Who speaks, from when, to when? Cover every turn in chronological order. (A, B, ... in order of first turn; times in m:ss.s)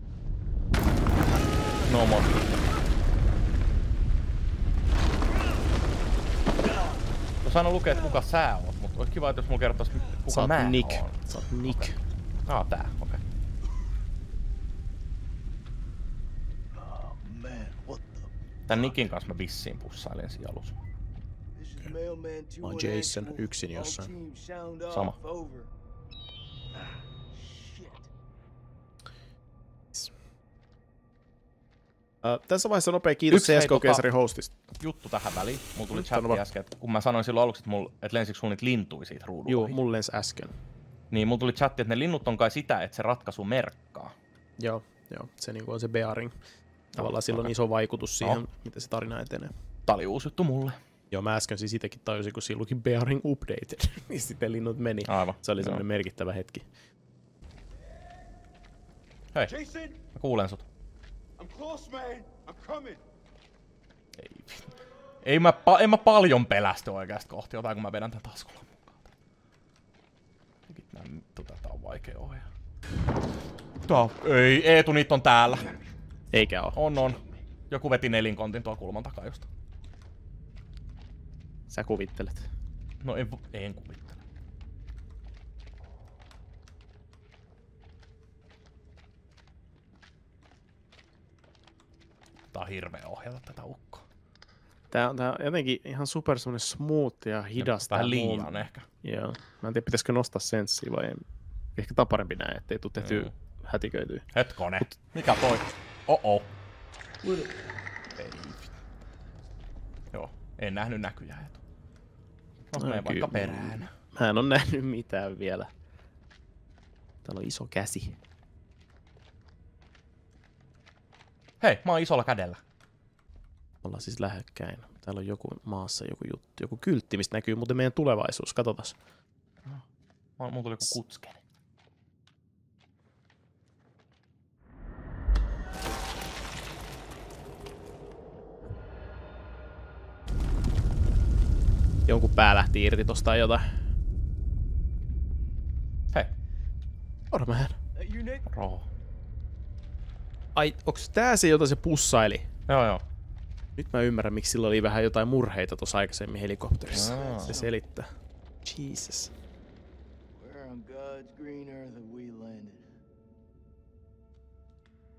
0:01.8-0:02.5 A
0:07.4-0:11.9 A
0:10.3-0:12.0 B
0:12.5-0:13.2 A
0:16.8-0:18.3 C
0:18.7-0:20.8 A
0:21.6-0:25.7 C
0:22.6-0:24.1 B
0:24.9-0:25.2 A
0:27.3-0:28.1 C
0:32.2-0:34.5 B
0:33.3-0:34.1 A
0:34.8-0:39.8 A
0:35.9-0:36.4 B
0:39.5-0:40.5 B
0:41.1-0:44.1 A
0:44.6-0:46.4 B
0:46.9-0:47.5 A
0:47.0-0:49.5 B
0:49.9-0:50.8 A
0:51.1-0:56.7 B
0:55.1-0:55.8 A
0:59.5-1:00.0 D
1:00.1-1:00.6 A
1:01.4-1:03.0 D
1:04.2-1:04.7 A
1:05.2-1:09.0 A
1:10.7-1:12.5 A
1:13.9-1:15.7 A
1:16.3-1:16.8 B
1:16.7-1:19.5 A
1:21.7-1:22.5 B
1:23.0-1:24.2 A
1:32.5-1:34.0 A
1:34.9-1:41.2 B
1:37.6-1:38.9 A
1:41.8-1:44.3 B
1:43.0-1:43.3 A
1:44.3-1:46.5 A
1:48.2-1:48.7 A
1:50.1-1:51.6 A
1:52.7-1:53.9 A
1:52.8-1:55.7 B
1:57.2-1:58.2 B
2:01.6-2:02.6 A
2:03.8-2:09.0 B
2:10.4-2:11.4 A
2:22.1-2:23.8 B
2:27.3-2:27.8 B
2:28.0-2:28.5 C
2:28.5-2:28.9 A
2:30.6-2:32.5 B
2:32.7-2:33.0 A
2:33.8-2:38.1 B
2:36.9-2:37.6 A
2:37.0-2:37.8 C
2:38.6-2:39.3 B
2:40.4-2:42.8 C